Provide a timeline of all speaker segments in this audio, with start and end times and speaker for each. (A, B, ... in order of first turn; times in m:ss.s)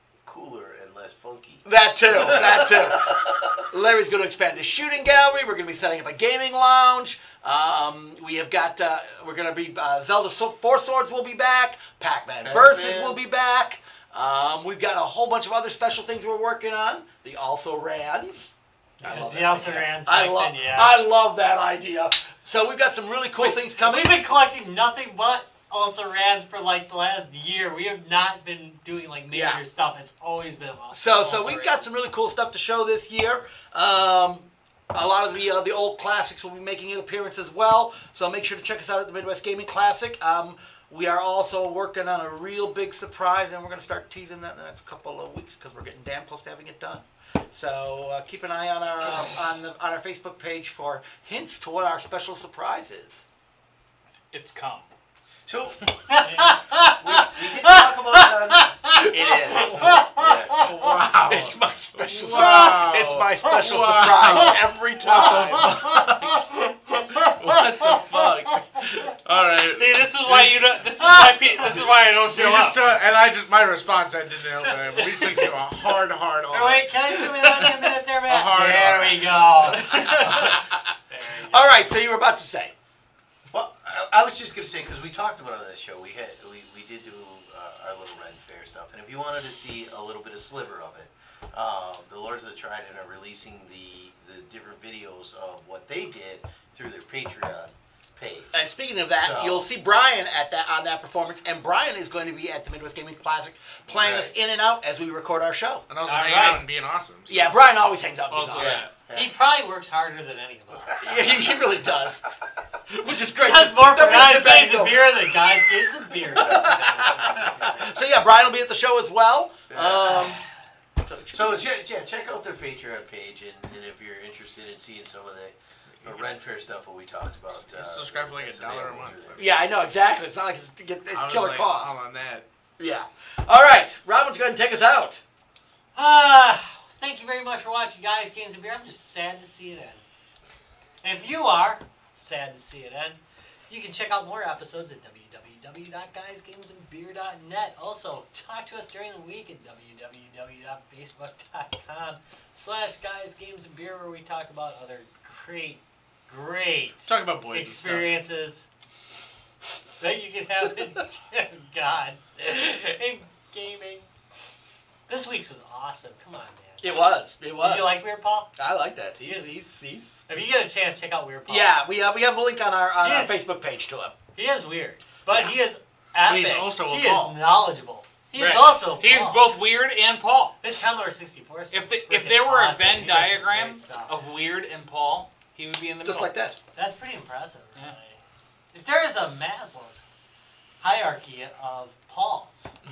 0:00.2-0:03.5 A
0:01.6-0:24.2 B
0:12.4-0:13.2 A
0:19.0-0:21.0 C
0:23.4-0:31.8 C
0:29.3-0:29.6 B
0:30.9-0:53.2 B
0:54.3-0:54.9 D
0:55.5-0:55.8 A
0:56.1-1:00.7 C
0:57.0-0:58.7 A
0:59.0-1:00.0 B
0:59.9-1:00.5 A
1:00.5-1:06.4 E
1:01.3-1:05.9 B
1:07.2-1:08.2 C
1:07.2-1:10.7 E
1:09.7-1:12.9 D
1:10.8-1:11.9 C
1:12.2-1:17.2 E
1:16.5-1:21.8 C
1:17.3-1:17.8 D
1:18.2-1:20.6 E
1:19.9-1:20.5 B
1:21.5-1:22.7 B
1:23.5-1:38.5 A
1:38.5-1:45.8 B
1:39.2-1:39.6 A
1:43.9-1:44.3 A
1:45.9-1:47.5 E
1:46.0-1:46.6 C
1:47.3-1:48.8 B
1:48.3-1:48.9 D
1:48.6-1:49.3 A
1:49.1-1:51.3 C
1:51.0-1:52.2 B
1:52.9-1:55.1 B
1:53.4-1:57.9 C
1:56.3-2:00.4 B
1:59.7-2:00.4 A
2:01.0-2:01.7 B
2:01.3-2:09.4 A
2:07.6-2:09.5 E
2:09.4-2:12.0 B
2:11.1-2:12.4 E
2:12.8-2:15.2 B
2:15.9-2:20.0 C
2:21.0-2:23.2 C
2:23.7-2:38.7 C
2:37.0-2:38.2 E
2:40.0-2:44.1 C
2:45.1-2:47.0 C
2:46.8-2:48.0 B
2:47.6-2:48.5 C
2:48.6-2:50.2 B
2:49.2-2:49.5 C
2:50.3-2:51.8 C
2:51.5-2:54.2 B
2:53.0-2:53.4 C
2:54.3-2:59.5 C
2:56.3-2:57.4 E
2:58.4-2:58.7 B
2:58.4-3:00.6 D
3:00.6-3:04.2 C
3:01.7-3:06.3 D
3:06.0-3:06.6 B
3:06.7-3:08.2 C
3:08.7-3:10.0 C
3:10.8-3:12.7 C